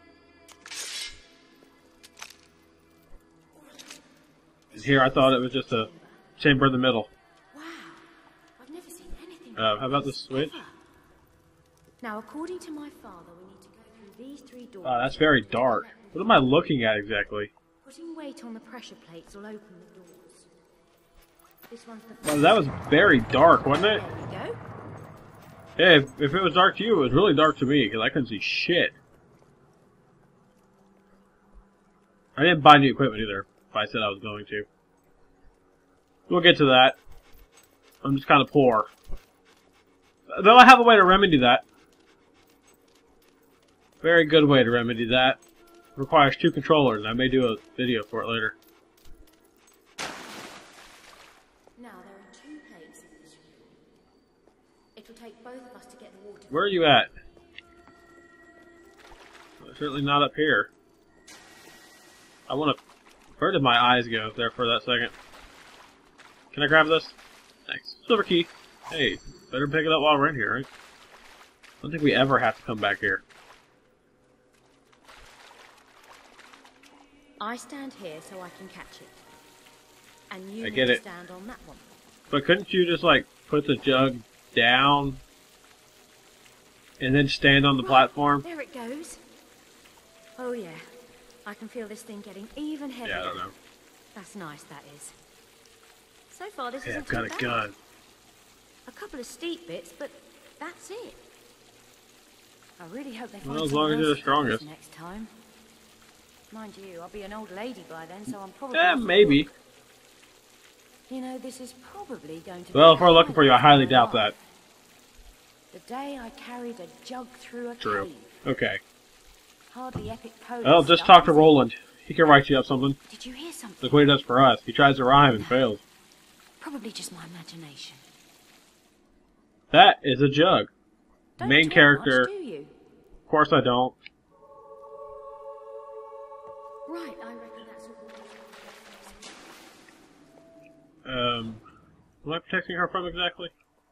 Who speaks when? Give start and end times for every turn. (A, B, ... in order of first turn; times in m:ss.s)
0:03.6-0:04.1 A
0:04.7-0:06.2 A
0:04.8-0:07.1 B
0:07.5-0:10.8 A
0:09.6-0:10.6 B
0:12.0-0:16.6 A
0:14.8-0:17.5 B
0:17.8-0:20.5 A
0:21.7-0:24.6 A
0:22.2-0:24.0 B
0:25.8-0:29.0 B
0:32.4-0:34.7 B
0:36.3-0:37.0 B
0:38.0-0:38.9 B
0:40.3-0:41.6 B
0:44.0-0:45.4 B
0:46.0-0:48.6 B
0:51.8-0:53.8 A
0:55.0-0:56.8 A
0:56.5-0:57.1 B
0:59.6-1:00.7 B
1:02.5-1:02.8 B
1:03.4-1:05.1 B
1:06.5-1:07.2 B
1:07.7-1:10.7 B
1:11.8-1:13.2 B
1:17.4-1:19.2 A
1:20.3-1:22.0 A
1:20.6-1:21.0 B
1:22.3-1:25.2 B
1:27.0-1:28.4 B
1:27.8-1:29.2 A
1:30.4-1:30.9 A
1:31.4-1:33.5 A
1:33.0-1:33.5 B
1:34.1-1:35.2 A
1:36.3-1:37.7 A
1:36.8-1:37.8 B
1:38.9-1:41.2 A
1:42.8-1:45.3 A
1:43.4-1:44.6 B
1:46.5-1:49.5 A
1:48.7-1:49.5 B
1:51.1-1:54.4 A
1:52.7-1:54.3 B
1:55.7-1:58.4 A
1:57.8-1:58.8 B
1:59.7-2:01.6 A
2:00.6-2:03.0 B
2:03.1-2:04.1 A
2:03.8-2:05.8 B
2:06.6-2:08.0 A
2:09.7-2:10.7 B
2:11.4-2:12.7 A
2:11.4-2:12.3 B
2:13.3-2:14.0 B
2:16.9-2:19.6 A
2:21.0-2:21.6 B
2:22.2-2:23.5 B